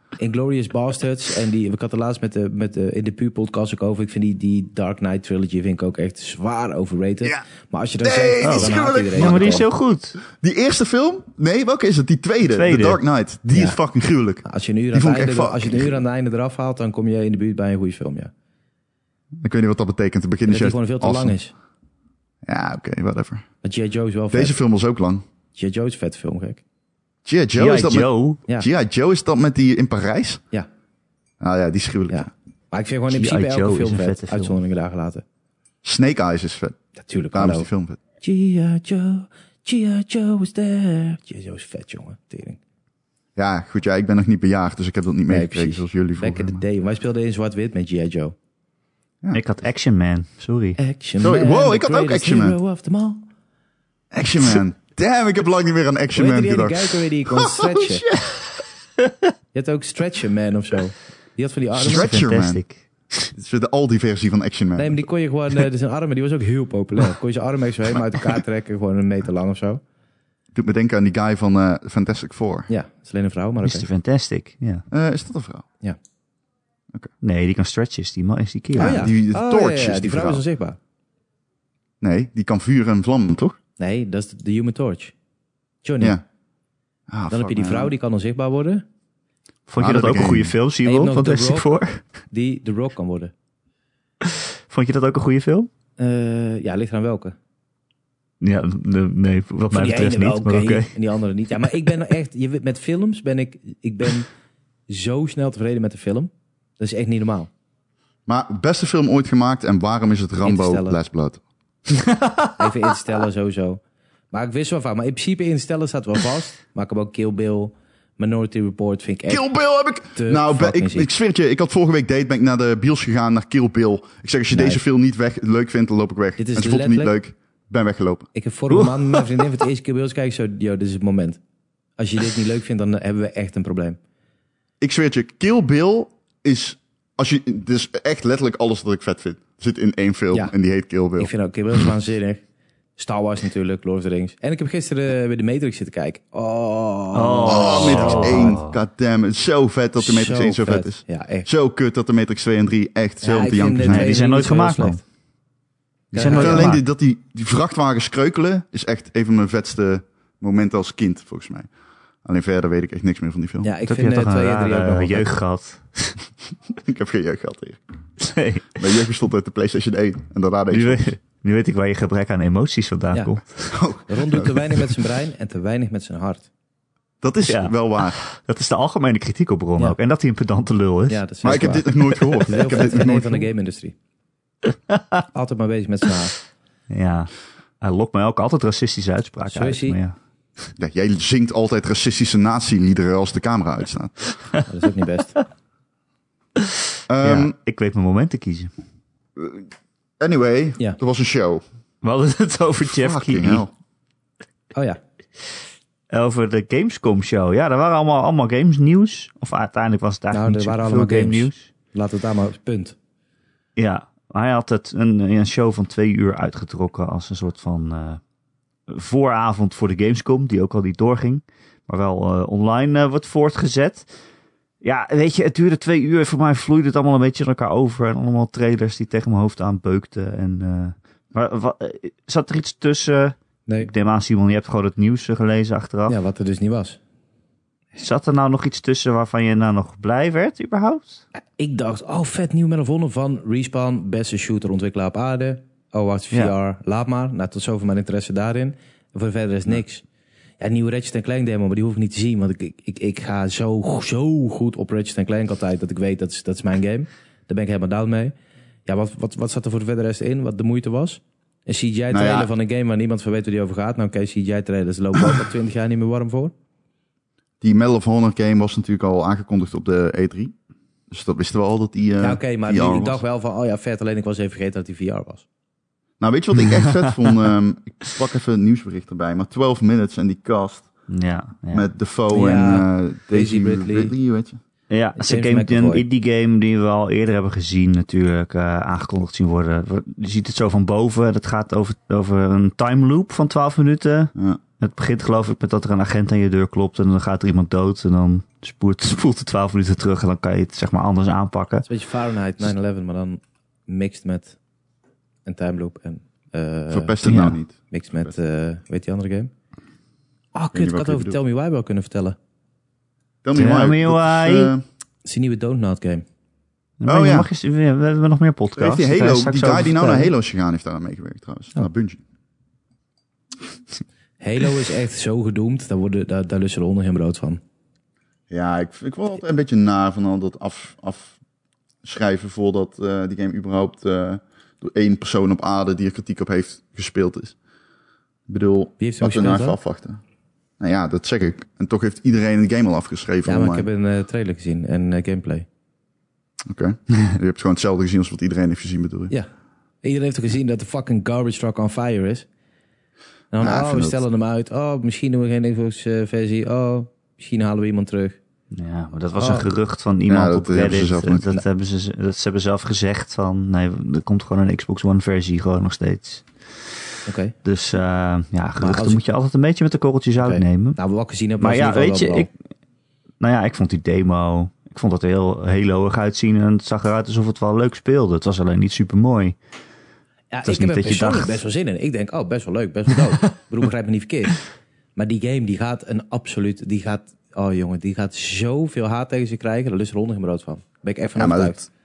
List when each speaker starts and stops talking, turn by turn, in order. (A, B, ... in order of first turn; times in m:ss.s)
0:00.2-0:09.7 A
0:08.0-0:09.7 B
0:08.4-0:10.2 C
0:10.3-0:16.0 B
0:12.5-0:13.0 C
0:13.5-0:13.8 A
0:14.4-0:18.3 A
0:19.4-0:21.4 B
0:20.5-0:21.5 A
0:22.4-0:23.4 B
0:23.6-0:24.6 A
0:24.3-0:25.2 B
0:25.5-0:26.6 A
0:27.2-0:30.4 B
0:27.6-0:28.4 C
0:31.4-0:32.3 B
0:32.1-0:35.2 A
0:33.1-0:34.6 C
0:35.8-0:36.8 B
0:37.0-0:37.7 A
0:37.3-0:38.0 B
0:38.2-0:42.6 A
0:43.4-0:46.6 B
0:45.3-0:48.3 A
0:49.3-0:50.8 C
0:50.8-0:53.2 A
0:51.2-0:52.6 B
0:54.1-0:58.1 B
0:56.1-0:58.0 A
0:59.5-1:02.1 A
1:01.8-1:02.6 B
1:01.8-1:03.3 C
1:03.3-1:05.0 B
1:04.8-1:09.8 A
1:10.5-1:12.7 B
1:12.7-1:13.9 A
1:13.6-1:14.8 C
1:14.9-1:15.6 B
1:17.2-1:19.1 C
1:18.7-1:20.4 B
1:18.8-1:20.8 A
1:22.0-1:23.6 B
1:23.8-1:25.1 A
1:25.8-1:26.2 A
1:27.1-1:27.9 B
1:27.3-1:28.8 A
1:29.7-1:32.0 C
1:29.8-1:30.5 B
1:30.8-1:31.7 A
1:32.3-1:33.3 A
1:34.2-1:35.7 C
1:36.0-1:37.3 A
1:38.4-1:40.9 C
1:39.7-1:44.3 A
1:44.9-1:47.5 A
1:48.3-1:51.4 B
1:50.4-1:51.0 A
1:52.0-1:52.5 C
1:52.6-1:53.8 A
1:54.3-1:59.5 A
1:59.3-2:08.3 B
2:00.1-2:01.1 A
2:04.5-2:04.8 A
2:06.4-2:07.1 A
2:08.3-2:11.4 A
2:08.7-2:09.5 C
2:12.0-2:14.0 A
2:14.8-2:21.3 B
2:21.2-2:22.4 A
2:23.0-2:28.5 A
2:27.1-2:28.8 C
2:27.4-2:34.2 B
2:30.0-2:31.5 A
2:33.2-2:35.0 A
2:33.8-2:35.0 C
2:36.1-2:36.7 A
2:36.1-2:36.8 C
2:36.2-2:41.7 B
2:42.2-2:43.7 B
2:43.6-2:45.3 A
2:43.9-2:46.2 C
2:46.8-2:47.8 B
2:48.2-2:48.9 C
2:48.8-2:51.0 B
2:50.7-2:53.8 C
2:53.1-2:53.4 A
2:53.7-2:54.8 B
2:54.0-2:56.5 A
2:57.2-2:58.2 B
2:57.5-3:01.2 C
3:01.1-3:03.9 A
3:01.4-3:03.5 B
3:02.2-3:02.6 C
3:05.3-3:06.3 A
3:06.9-3:10.1 C
3:09.5-3:10.0 A
3:10.8-3:14.2 B
3:14.7-3:15.4 A
3:17.1-3:17.5 B
3:17.2-3:18.7 C
3:19.4-3:19.7 B
3:20.2-3:21.6 B
3:22.0-3:23.6 C
3:22.8-3:23.7 B
3:24.7-3:25.0 A
3:26.1-3:31.7 C
3:30.3-3:33.0 A
3:33.8-3:38.2 C
3:38.9-3:44.1 C
3:44.8-3:56.2 C
3:56.1-3:57.0 A
3:58.0-4:01.2 C
4:01.6-4:10.0 A
4:10.6-4:18.3 A
4:18.8-4:26.5 A
4:22.1-4:22.5 B
4:27.6-4:30.5 B
4:31.1-4:33.2 B
4:32.2-4:35.4 A
4:36.2-4:40.9 B
4:36.7-4:37.3 C
4:41.1-4:41.8 C
4:41.7-4:44.6 B
4:42.3-4:44.1 A
4:44.9-5:01.8 C
4:45.2-4:46.0 A
4:54.4-4:54.6 B
5:01.8-5:04.6 A
5:05.4-5:09.5 A
5:06.9-5:08.3 B
5:07.2-5:07.6 C
5:10.5-5:12.4 A
5:10.7-5:11.4 B
5:13.4-5:14.8 B
5:13.5-5:14.7 C
5:15.2-5:16.2 A
5:17.0-5:20.3 C
5:17.1-5:17.5 B
5:18.8-5:22.2 B
5:24.4-5:27.6 A
5:28.5-5:31.4 B
5:32.0-5:37.6 B
5:38.5-5:40.2 B
5:39.0-5:39.8 A
5:40.8-5:43.9 B
5:43.4-5:45.6 A
5:46.6-5:49.3 B
5:50.0-5:52.4 A
5:53.5-5:58.4 A
5:53.6-5:54.2 B
5:58.7-6:06.4 C
5:59.4-5:59.7 A
6:00.3-6:01.6 B
6:07.2-6:07.5 A
6:07.6-6:11.0 C
6:08.8-6:09.2 A
6:10.4-6:12.5 A
6:11.6-6:12.5 C
6:13.4-6:19.6 C
6:20.5-6:24.6 A
6:20.6-6:21.6 C
6:25.2-6:31.9 A
6:31.4-6:31.7 B